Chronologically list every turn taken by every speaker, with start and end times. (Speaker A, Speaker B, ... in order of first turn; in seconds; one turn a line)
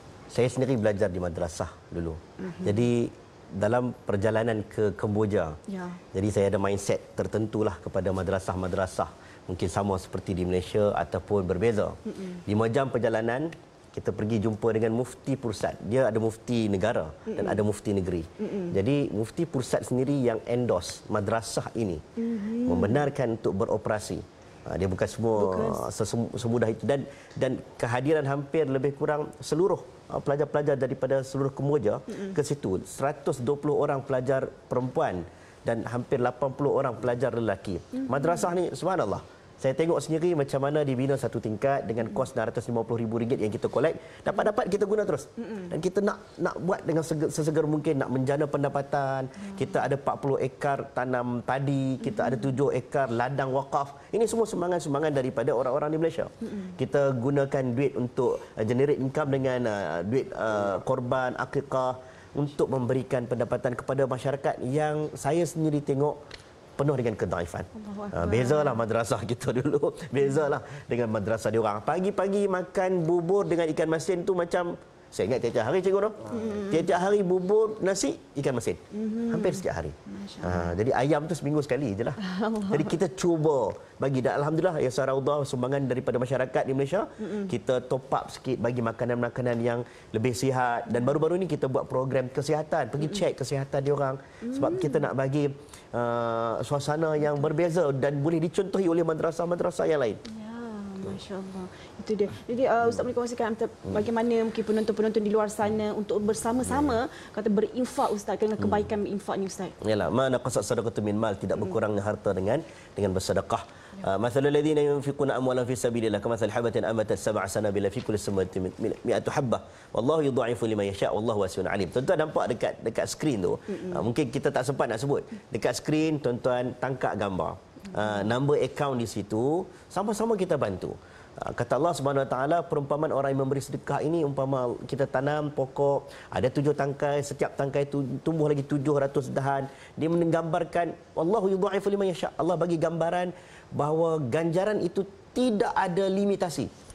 Speaker A: 0.3-5.6
Speaker B: 2.4-2.8
Speaker B: 5.7-6.0
Speaker A: 6.1-22.0
Speaker B: 12.1-12.4
Speaker B: 17.3-17.6
Speaker B: 18.4-18.8
Speaker B: 22.2-23.1
Speaker A: 22.6-66.2
Speaker B: 25.3-25.8
Speaker B: 37.9-38.5
Speaker B: 45.4-45.7
Speaker B: 49.4-49.8
Speaker B: 52.0-52.5
Speaker B: 56.4-56.7
Speaker A: 66.8-100.2
Speaker B: 67.7-68.8
Speaker B: 76.3-76.9
Speaker B: 78.9-80.7
Speaker B: 82.2-83.0
Speaker B: 87.2-87.5
Speaker B: 94.4-95.0
Speaker B: 100.2-109.7
Speaker A: 106.7-107.0
Speaker A: 109.8-146.7
Speaker B: 123.7-124.0